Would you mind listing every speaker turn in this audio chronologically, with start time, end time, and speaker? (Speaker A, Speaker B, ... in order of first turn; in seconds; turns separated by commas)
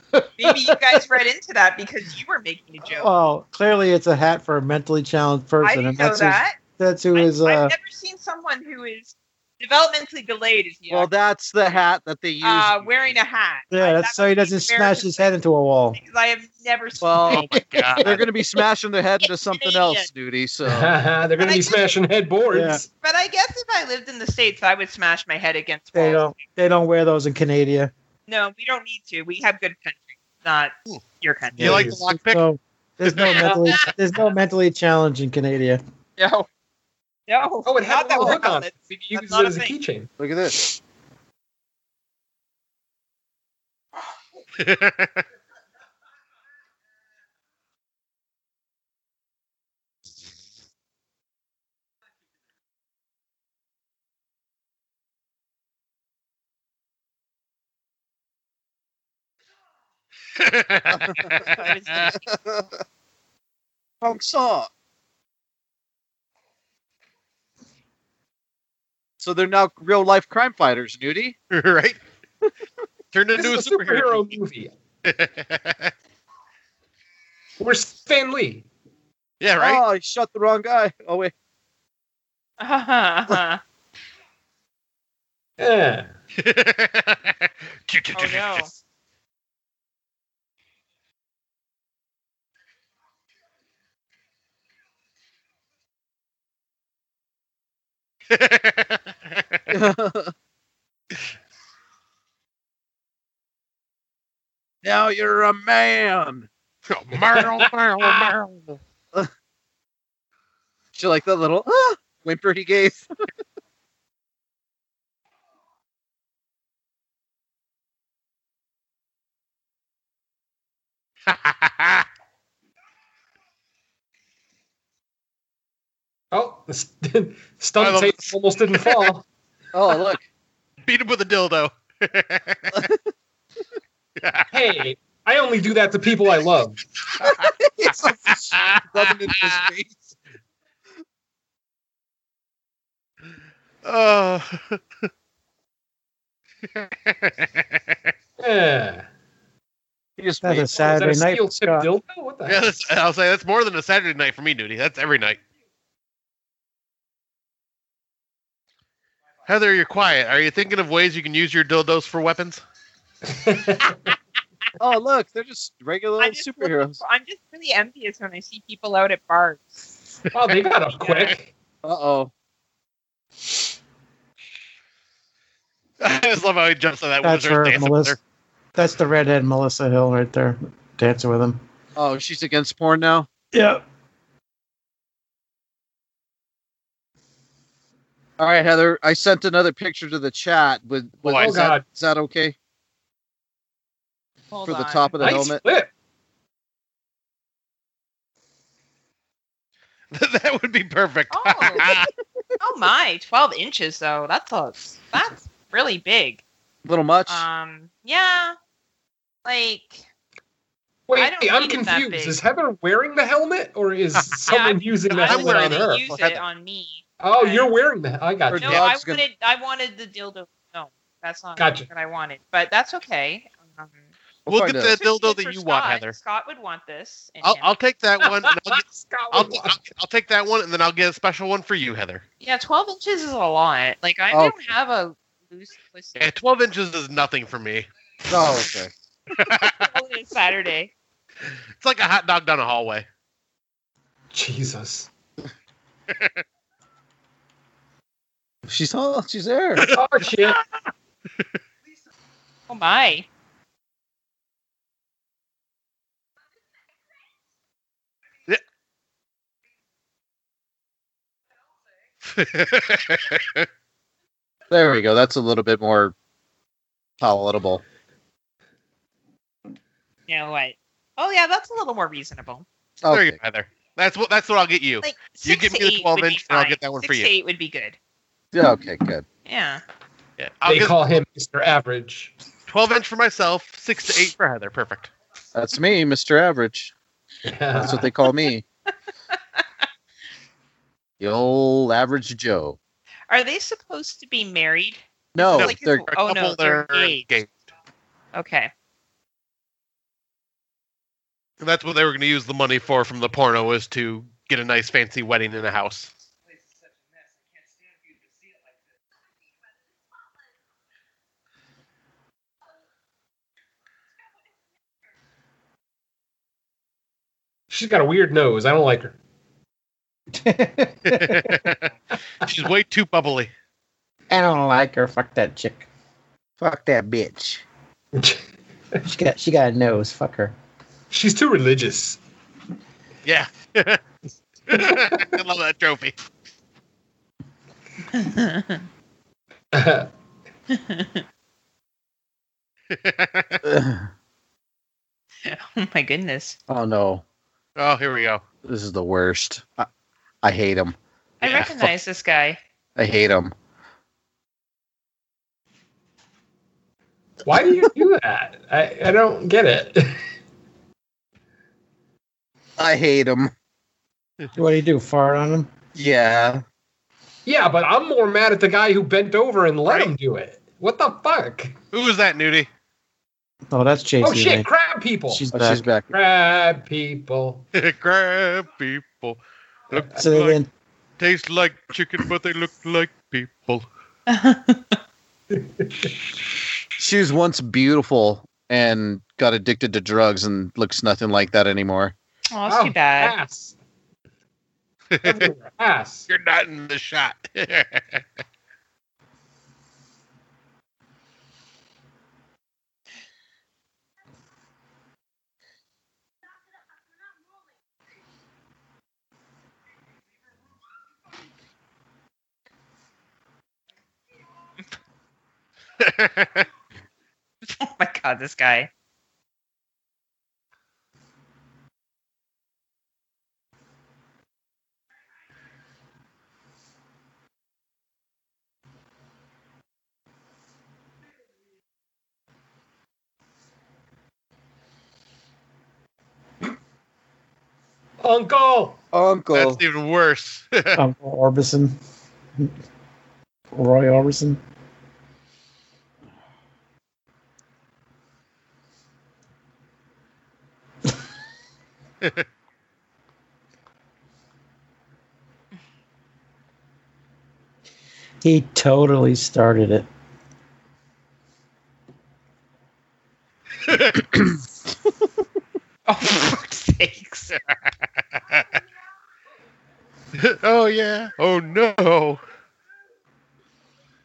Speaker A: 0.4-3.1, Speaker B: 2.9-7.7, Speaker A: 5.6-6.6, Speaker A: 7.1-11.1, Speaker C: 10.9-13.1, Speaker A: 12.4-15.3, Speaker B: 13.7-16.0, Speaker A: 15.9-17.5, Speaker C: 17.0-17.4, Speaker D: 17.3-18.1, Speaker C: 18.0-20.9, Speaker A: 19.2-20.1, Speaker E: 20.6-22.9, Speaker A: 21.4-21.9, Speaker B: 22.5-22.8, Speaker A: 23.0-26.3, Speaker B: 25.9-27.9, Speaker A: 28.3-31.9, Speaker B: 31.6-35.8, Speaker D: 31.6-32.4, Speaker D: 33.1-33.5, Speaker E: 33.4-33.7, Speaker A: 33.5-33.9, Speaker A: 36.2-36.5, Speaker A: 37.3-39.7, Speaker E: 37.6-40.1, Speaker C: 40.2-40.6, Speaker D: 44.6-45.2, Speaker D: 60.4-62.1, Speaker C: 60.9-61.5, Speaker A: 61.4-62.3, Speaker C: 62.1-62.8, Speaker C: 64.0-64.7, Speaker C: 69.2-71.3, Speaker D: 71.5-72.0, Speaker D: 73.1-74.3, Speaker E: 73.3-74.7, Speaker D: 75.0-75.9, Speaker E: 77.6-78.7, Speaker D: 79.4-79.8, Speaker C: 79.6-81.3, Speaker A: 82.6-83.6, Speaker E: 85.6-86.1, Speaker D: 86.4-88.8, Speaker A: 88.1-88.7, Speaker D: 98.3-99.6, Speaker C: 99.7-100.3, Speaker C: 104.8-106.5, Speaker D: 106.9-108.8, Speaker E: 107.4-108.3, Speaker C: 110.9-113.1, Speaker D: 121.3-122.0, Speaker E: 126.3-129.2, Speaker D: 127.8-129.1, Speaker C: 129.7-130.2, Speaker D: 130.8-132.8, Speaker C: 132.7-133.0, Speaker D: 134.2-134.5, Speaker E: 134.5-136.8, Speaker C: 137.2-140.1, Speaker D: 138.5-139.6, Speaker D: 143.8-144.8, Speaker D: 146.7-148.0, Speaker E: 148.4-149.1, Speaker C: 150.2-150.9, Speaker B: 150.4-151.9, Speaker E: 150.8-152.7, Speaker D: 152.4-155.4, Speaker D: 159.5-162.6, Speaker E: 163.2-164.1, Speaker C: 164.8-167.0, Speaker A: 166.2-169.9, Speaker E: 170.3-171.5, Speaker A: 171.0-171.3, Speaker C: 171.8-172.3, Speaker D: 176.0-178.2, Speaker B: 177.2-178.2, Speaker B: 178.7-181.6, Speaker C: 181.9-183.3, Speaker B: 183.5-183.8, Speaker C: 188.4-192.5, Speaker D: 191.2-191.5, Speaker E: 191.3-191.8, Speaker A: 194.5-195.4, Speaker C: 194.7-195.6, Speaker E: 195.2-195.9, Speaker D: 200.1-202.1, Speaker A: 201.3-201.9, Speaker A: 202.6-206.4, Speaker C: 206.8-207.4, Speaker A: 207.3-208.6, Speaker A: 209.4-210.1, Speaker E: 211.1-216.1, Speaker A: 211.2-212.4, Speaker A: 214.4-217.7, Speaker D: 215.2-216.4, Speaker E: 217.2-218.8, Speaker C: 218.5-219.2, Speaker A: 218.6-224.1, Speaker E: 221.6-221.9, Speaker C: 224.4-224.9, Speaker D: 224.5-226.2, Speaker A: 224.9-227.7, Speaker D: 227.4-232.2, Speaker E: 228.2-229.8, Speaker A: 232.4-236.2, Speaker C: 234.3-234.6, Speaker D: 236.2-237.9, Speaker C: 238.3-238.9, Speaker D: 239.3-239.9, Speaker A: 239.4-240.9, Speaker D: 241.8-243.1, Speaker E: 244.3-245.1, Speaker C: 248.7-249.9, Speaker D: 249.8-250.6, Speaker E: 249.9-250.6, Speaker A: 252.7-253.3, Speaker D: 262.3-263.7, Speaker C: 264.7-266.1, Speaker C: 267.2-267.8, Speaker A: 270.3-272.6, Speaker C: 273.0-273.3, Speaker D: 273.1-277.3, Speaker A: 275.0-278.0, Speaker C: 278.5-279.2, Speaker A: 279.4-279.8, Speaker D: 280.4-281.0, Speaker E: 280.6-282.3, Speaker D: 282.7-285.1, Speaker C: 285.5-286.9, Speaker E: 287.4-288.1, Speaker C: 287.7-288.6, Speaker C: 291.2-292.8, Speaker A: 293.3-297.2, Speaker C: 295.3-296.1, Speaker D: 295.5-297.6, Speaker A: 298.3-298.7, Speaker D: 301.6-306.1, Speaker E: 317.7-319.1, Speaker B: 320.3-321.6, Speaker D: 321.1-323.5, Speaker B: 324.3-325.9, Speaker C: 326.6-327.6, Speaker E: 328.1-328.4, Speaker B: 329.0-330.5, Speaker E: 331.1-332.2, Speaker D: 333.2-334.0, Speaker D: 334.7-336.1, Speaker E: 334.7-335.4, Speaker A: 338.1-338.8, Speaker E: 339.7-340.1, Speaker A: 340.7-341.2, Speaker D: 342.9-343.6, Speaker C: 343.6-344.1, Speaker A: 345.4-346.6, Speaker C: 346.7-347.2, Speaker D: 347.8-348.4, Speaker C: 348.6-349.9, Speaker C: 350.4-350.9, Speaker A: 351.4-352.6, Speaker C: 351.5-351.9, Speaker C: 352.9-353.5, Speaker E: 357.4-360.2, Speaker C: 362.8-363.5, Speaker B: 364.5-365.7, Speaker C: 365.9-366.6, Speaker E: 367.4-371.8, Speaker D: 369.9-370.1, Speaker D: 371.9-372.7, Speaker B: 373.7-374.7, Speaker E: 374.2-375.5, Speaker B: 375.3-375.9, Speaker C: 375.5-376.1, Speaker E: 376.1-377.6, Speaker D: 377.7-379.4, Speaker D: 379.9-380.6, Speaker B: 380.1-380.7, Speaker D: 381.2-383.8, Speaker A: 384.3-385.0, Speaker E: 385.5-386.1, Speaker C: 387.0-392.1, Speaker A: 392.5-393.4, Speaker E: 392.6-393.8, Speaker D: 395.1-395.5, Speaker E: 395.2-396.3, Speaker D: 396.3-398.2, Speaker D: 416.0-416.7, Speaker A: 417.6-418.9, Speaker E: 438.2-439.0, Speaker C: 439.1-439.8, Speaker D: 439.5-441.0, Speaker B: 440.9-442.0, Speaker B: 443.7-444.6, Speaker B: 458.4-460.1, Speaker D: 463.9-464.4, Speaker A: 466.1-467.6, Speaker D: 470.3-472.4